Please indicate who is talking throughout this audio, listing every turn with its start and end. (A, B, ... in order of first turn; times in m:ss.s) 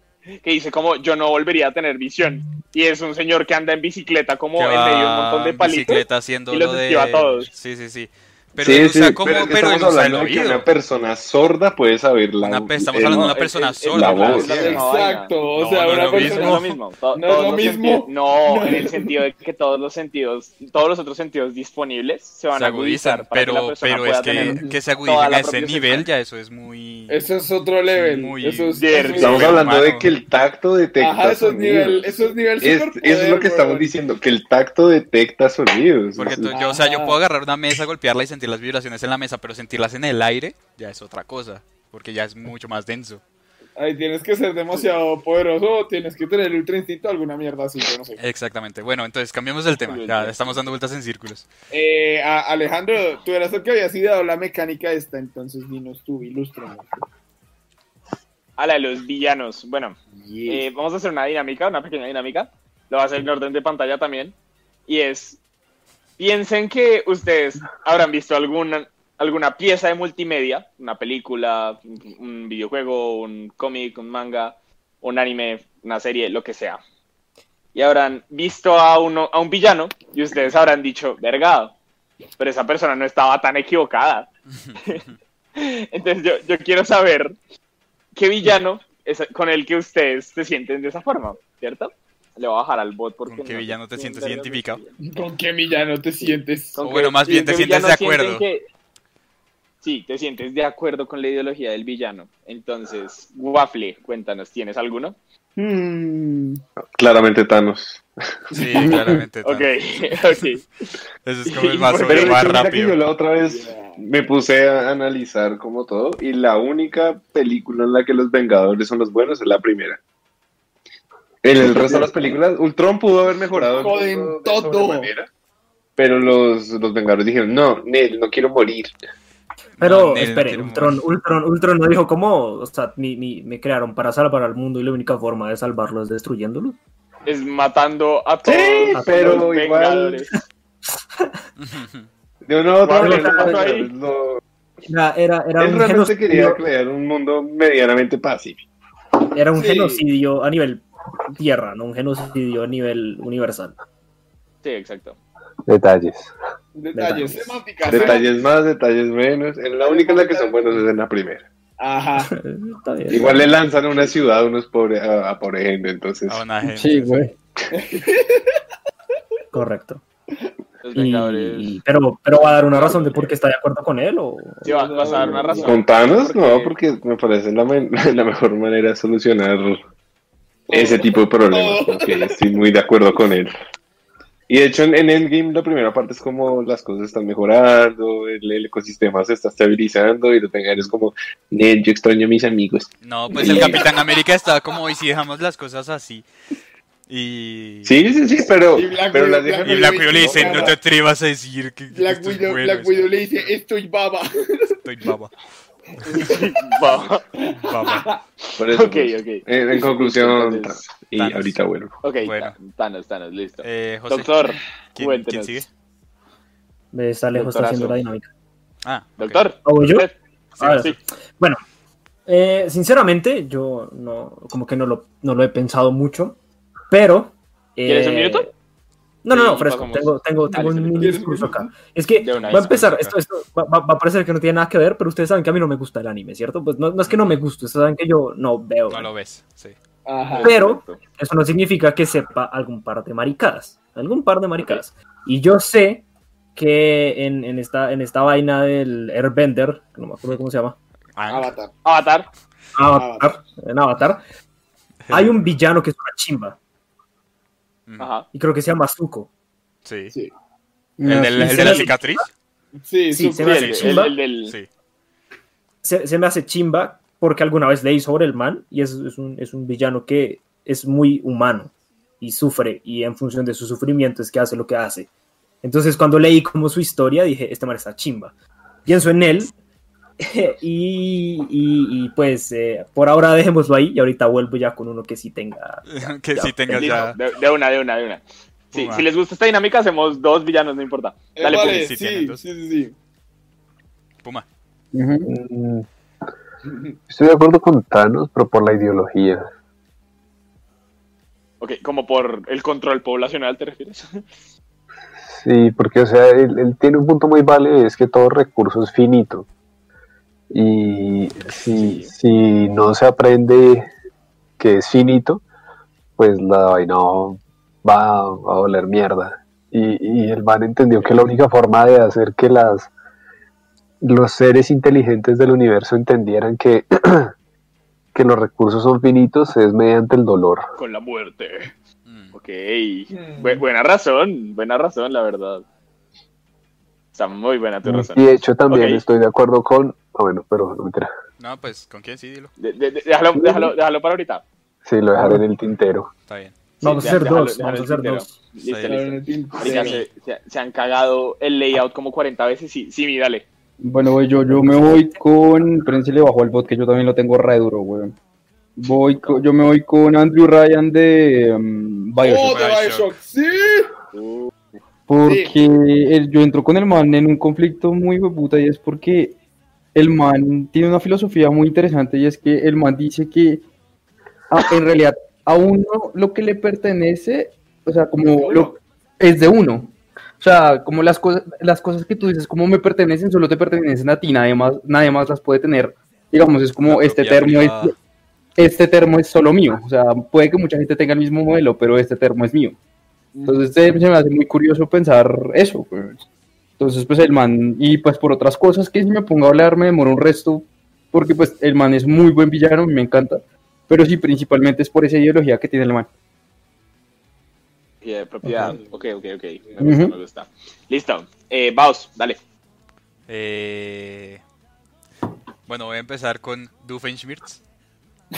0:00.4-0:07.5 A
0:04.6-0:10.6 B
0:08.6-0:14.8 C
0:12.4-0:14.8 B
0:13.0-0:26.1 A
0:14.4-0:19.2 D
0:15.6-0:16.8 B
0:22.5-0:27.2 B
0:24.4-0:24.8 D
0:27.1-0:29.6 D
0:27.9-0:30.1 B
0:28.7-0:29.5 A
0:29.2-0:36.5 C
0:31.0-0:33.9 D
0:36.2-0:43.2 B
0:36.5-0:37.2 D
0:43.8-0:48.2 D
0:48.2-0:51.5 B
0:49.8-0:50.6 A
0:51.7-0:57.0 D
0:58.6-1:04.3 A
1:00.1-1:00.6 D
1:04.9-1:05.4 A
1:06.2-1:16.8 A
1:17.7-1:21.7 A
1:22.4-1:24.3 A
1:24.5-1:25.2 B
1:25.6-1:27.3 A
1:28.1-1:35.0 A
1:33.2-1:34.8 B
1:35.0-1:36.8 D
1:36.2-1:38.6 A
1:36.8-1:38.4 B
1:39.8-1:45.2 A
1:45.6-1:46.6 D
1:46.9-1:48.0 C
1:48.5-1:49.7 B
1:48.5-1:48.8 D
1:48.7-1:49.2 E
1:49.4-1:50.6 A
1:51.2-1:53.0 B
1:51.5-1:52.4 A
1:52.0-2:00.0 C
1:53.4-1:54.0 D
2:01.4-2:05.3 C
2:03.5-2:05.1 D
2:06.0-2:08.9 C
2:09.8-2:11.0 B
2:09.8-2:16.8 F
2:17.2-2:20.3 A
2:18.4-2:20.2 C
2:18.9-2:19.3 F
2:21.6-2:22.1 B
2:22.4-2:24.4 C
2:22.8-2:23.9 A
2:23.0-2:23.6 F
2:24.9-2:26.6 F
2:25.6-2:28.6 C
2:29.3-2:33.8 F
2:29.5-2:30.0 D
2:34.6-2:35.2 A
2:35.6-2:36.3 G
2:36.7-2:38.4 D
2:36.9-2:37.6 F
2:37.8-2:41.4 C
2:39.8-2:40.8 D
2:41.8-2:42.3 D
2:42.2-2:43.4 F
2:43.1-2:46.4 C
2:43.8-2:44.1 D
2:46.3-2:47.3 B
2:46.6-2:47.3 E
2:47.7-2:48.6 D
2:49.5-2:50.0 F
2:50.8-2:51.7 A
2:50.9-2:55.6 F
2:52.7-2:53.3 A
2:54.6-2:56.7 A
2:54.6-2:55.7 D
2:55.6-2:59.8 C
3:00.7-3:02.4 D
3:00.7-3:03.5 C
3:04.5-3:13.8 C
3:13.0-3:16.3 B
3:13.4-3:13.8 D
3:17.1-3:18.0 B
3:17.8-3:20.7 C
3:18.7-3:20.8 D
3:19.6-3:23.5 B
3:21.9-3:24.8 D
3:24.8-3:25.3 B
3:26.0-3:26.7 D
3:26.2-3:27.2 A
3:27.4-3:28.2 D
3:27.6-3:28.1 B
3:28.5-3:30.8 A
3:28.6-3:32.0 C
3:31.2-3:31.6 B
3:32.0-3:35.6 A
3:32.2-3:32.6 B
3:33.6-3:34.3 B
3:34.9-3:35.7 B
3:36.9-3:38.3 F
3:37.3-3:38.0 A
3:38.8-3:39.4 B
3:39.2-3:41.0 A
3:39.6-3:41.6 F
3:42.2-3:46.4 F
3:46.9-3:48.5 F
3:47.8-3:48.5 A
3:49.2-3:59.1 F
3:49.3-3:51.2 A
3:51.0-3:51.7 D
3:52.2-3:52.8 A
3:52.3-3:53.1 B
3:57.0-3:57.4 B
3:58.9-3:59.8 B
4:00.0-4:00.6 D
4:00.2-4:01.0 A
4:00.4-4:06.0 F
4:06.6-4:10.8 F
4:11.2-4:11.5 B
4:11.3-4:11.7 D
4:11.8-4:12.3 A
4:12.8-4:14.2 F
4:12.9-4:13.4 D
4:15.1-4:15.4 B
4:15.1-4:16.6 F
4:17.9-4:18.1 B
4:18.0-4:18.3 A
4:18.3-4:19.3 F
4:19.8-4:20.1 B
4:21.0-4:21.9 E
4:21.0-4:22.3 B
4:21.4-4:22.2 F
4:22.8-4:23.7 D
4:23.1-4:24.1 F
4:23.4-4:24.5 A
4:23.4-4:24.7 B
4:25.8-4:35.1 F
4:35.6-4:38.3 F
4:38.8-4:39.5 F
4:40.2-4:46.8 F
4:45.8-4:47.2 B
4:46.6-4:51.9 A
4:48.7-4:49.0 B
4:51.3-4:52.9 D
4:51.4-4:52.4 B
4:54.9-4:55.3 E
4:55.2-4:55.8 G
4:56.6-4:56.9 D
4:57.1-4:59.4 G
5:01.6-5:04.2 A
5:05.2-5:09.5 G
5:10.5-5:13.9 G
5:11.7-5:12.1 A
5:14.6-5:15.4 G
5:16.2-5:22.9 G
5:21.0-5:21.3 A
5:24.0-5:27.3 G
5:28.1-5:30.6 G
5:30.8-5:31.7 A
5:32.0-5:32.3 B
5:32.3-5:35.6 A
5:33.1-5:33.6 D
5:37.1-5:39.0 A
5:37.8-5:41.1 G
5:41.4-5:42.5 B
5:42.6-5:44.4 A
5:44.8-5:46.1 G
5:45.2-5:45.4 E
5:46.3-5:46.5 B
5:46.8-5:53.4 A
5:46.8-5:48.4 F
5:48.6-5:49.0 B
5:48.8-5:50.0 D
5:49.6-5:50.1 B
5:53.8-5:58.2 E
5:58.8-6:02.6 E
5:59.1-5:59.4 A
6:02.2-6:03.9 D
6:02.3-6:03.1 B
6:04.1-6:04.5 A
6:05.1-6:09.4 E
6:05.2-6:05.5 D
6:09.9-6:13.6 E
6:14.5-6:27.9 E
6:18.3-6:18.7 D
6:26.8-6:27.9 B
6:28.6-6:32.8 E
6:33.3-6:33.7 D
6:33.4-6:36.2 E
6:36.8-6:46.1 E
6:48.0-6:52.4 A
6:48.4-6:48.8 E
6:49.8-6:50.2 E
6:53.3-6:54.4 B
6:55.7-6:57.6 B